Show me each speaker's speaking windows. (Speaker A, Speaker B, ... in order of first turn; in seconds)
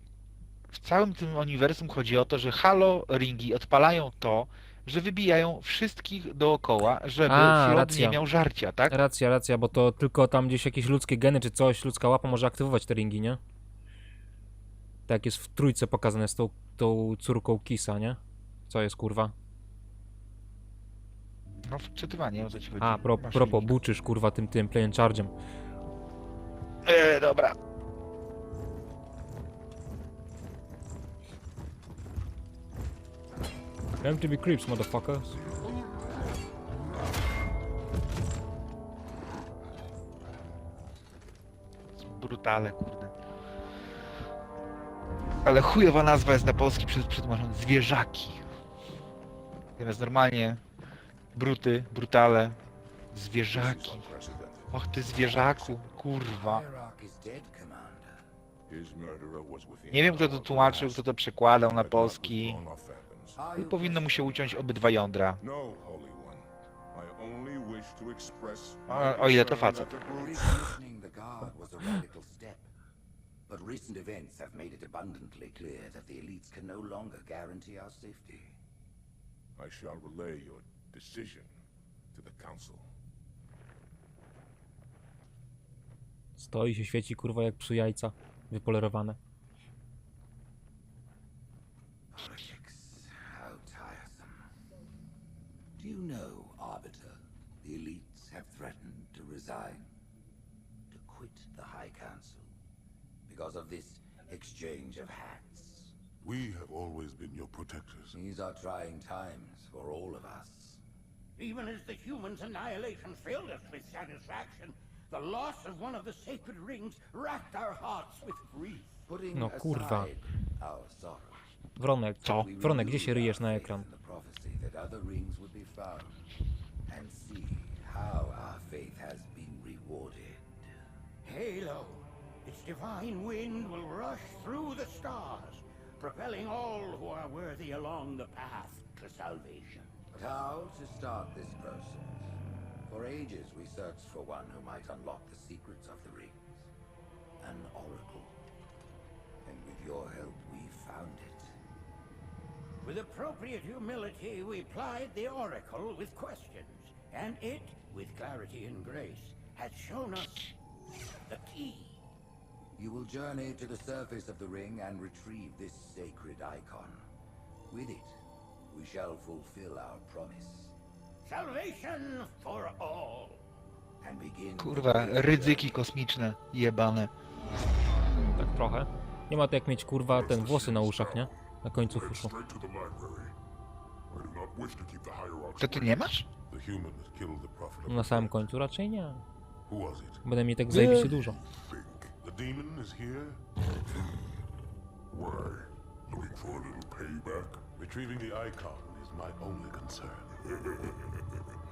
Speaker A: 0.7-9.0, 21.7-23.7, 26.8-27.6, 42.0-43.1, 45.4-48.4, 49.8-50.6, 51.3-52.6, 53.1-54.0, 54.7-56.6, 59.9-62.6, 63.5-65.4, 68.9-69.9, 174.6-177.1, 185.6-186.3
Speaker B: 7.3-8.2, 8.9-13.4, 15.1-19.3, 22.8-25.3, 34.0-35.4, 86.4-89.2, 119.3-120.1, 121.8-123.8, 178.3-182.3, 187.9-189.2, 190.2-191.4
Speaker C: 53.5-54.6, 58.7-61.0, 61.6-63.5, 65.4-70.8, 79.5-81.5, 82.1-82.9, 106.2-108.2, 180.1-181.3, 181.8-183.3, 184.1-188.3, 189.7-194.2, 195.1-201.5
Speaker D: 53.8-54.5, 55.1-58.2, 63.3-64.7, 69.5-72.7, 73.5-78.5, 92.1-94.4, 95.8-99.9, 100.9-102.5, 103.3-105.9, 108.1-110.8, 119.1-121.4, 122.2-126.1, 126.9-130.5, 140.1-142.2, 142.9-146.6, 147.4-148.3, 149.4-151.5, 162.8-167.1, 167.7-168.2, 168.7-170.7, 174.0-175.8
Speaker E: 111.4-118.9, 131.2-140.0, 152.8-160.5, 161.3-162.0, 171.2-173.4